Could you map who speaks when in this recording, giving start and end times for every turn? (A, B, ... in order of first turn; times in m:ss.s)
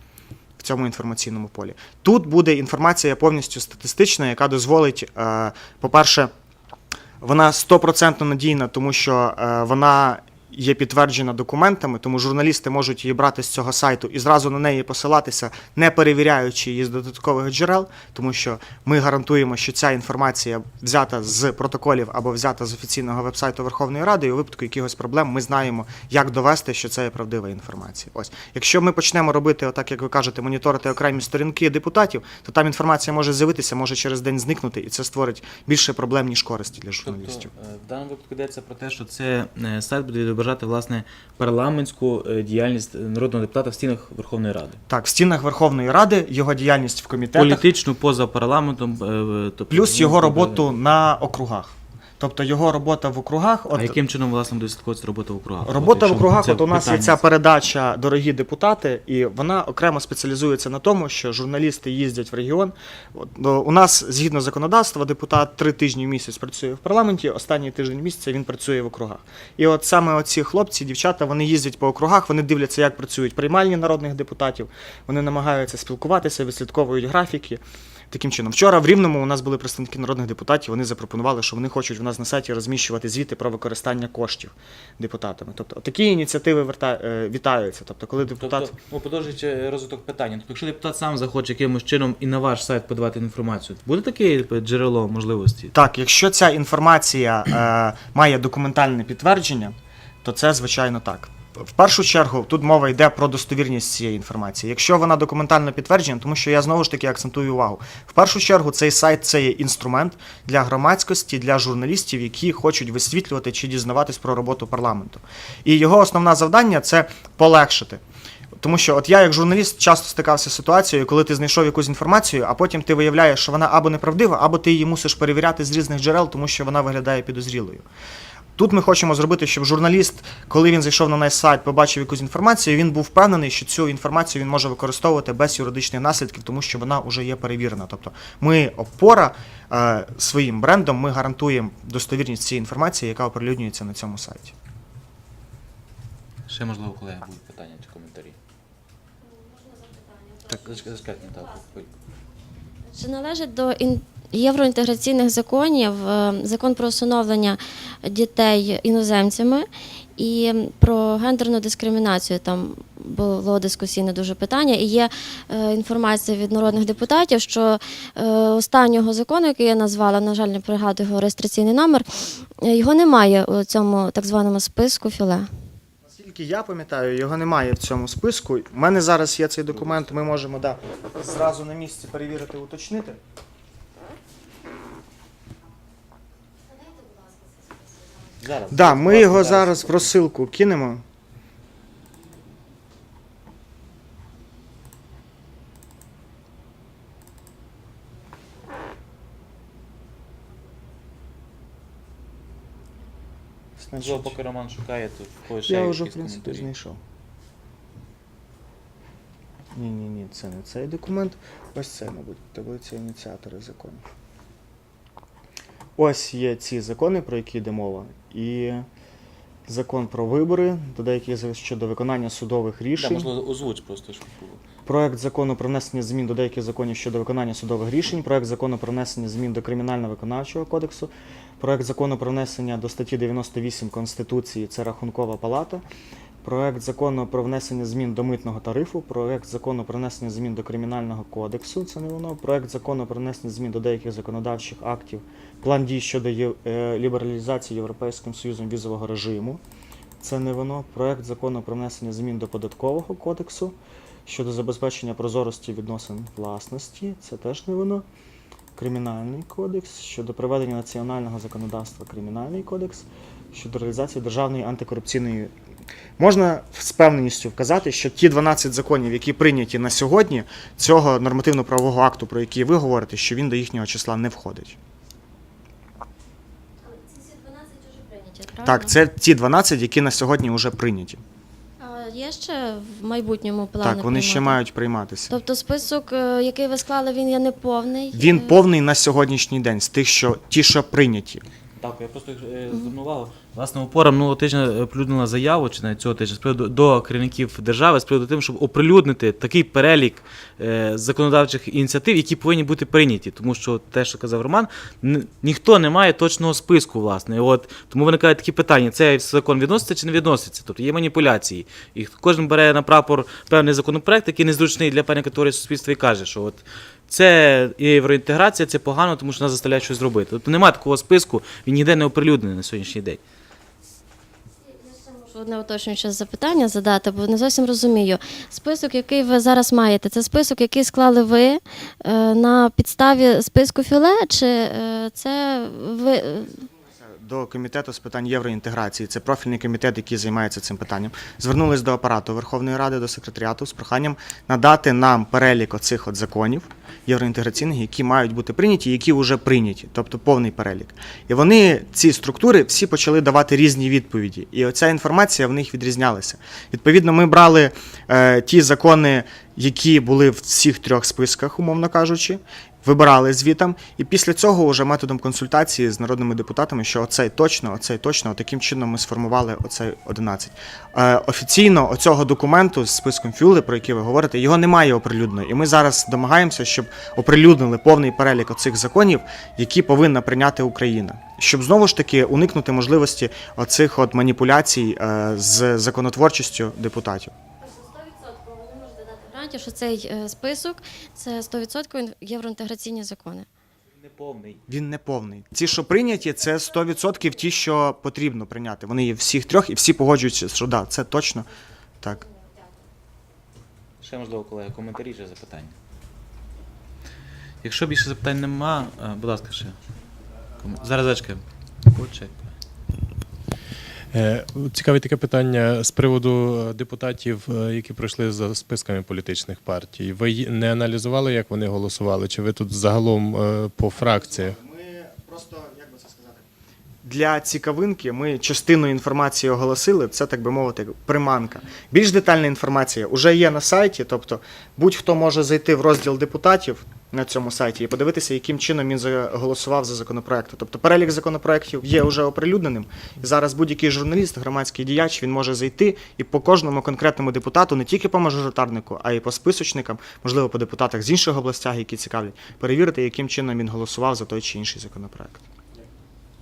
0:00.6-0:06.3 A
0:07.2-0:37.5 A
0:37.0-0:44.8 B
0:44.9-0:47.7 A
0:47.4-0:50.7 B
0:49.7-0:54.0 A
0:53.7-0:57.2 B
0:55.6-1:28.7 A
1:28.4-1:35.7 B
1:35.7-1:58.0 A
1:58.6-2:07.8 A
2:08.6-2:24.5 A
2:26.5-2:28.4 B
2:29.2-2:30.9 C
2:30.5-2:31.9 B
2:32.9-2:55.5 C
2:56.0-3:03.2 A
3:06.6-3:08.2 C
3:08.4-3:10.2 B
3:08.7-3:11.0 A
3:23.8-3:24.4 A
3:24.0-3:26.7 B
3:25.6-3:27.0 A
3:29.7-3:34.0 A
3:36.0-3:38.9 A
3:39.7-3:43.3 A
3:43.0-3:44.6 B
3:44.9-3:55.8 A
3:56.4-4:09.6 A
4:10.2-4:13.8 A
4:14.3-4:18.1 A
4:18.8-4:25.5 A
4:26.2-4:34.8 A
4:36.8-4:38.9 C
4:38.6-4:41.2 A
4:41.8-4:44.6 C
4:43.8-4:45.4 A
4:45.3-4:48.5 C
4:48.1-4:51.4 A
4:51.8-5:23.2 B
5:24.6-5:36.7 C
5:37.0-6:27.3 A
6:27.6-6:33.5 C
6:34.0-6:34.6 B
6:34.7-6:41.5 A
6:42.2-6:42.8 C
6:44.0-6:45.8 B
6:47.6-6:49.8 B
6:50.6-6:52.5 B
6:54.1-7:04.6 D
7:04.0-7:06.5 A
7:07.0-7:35.4 A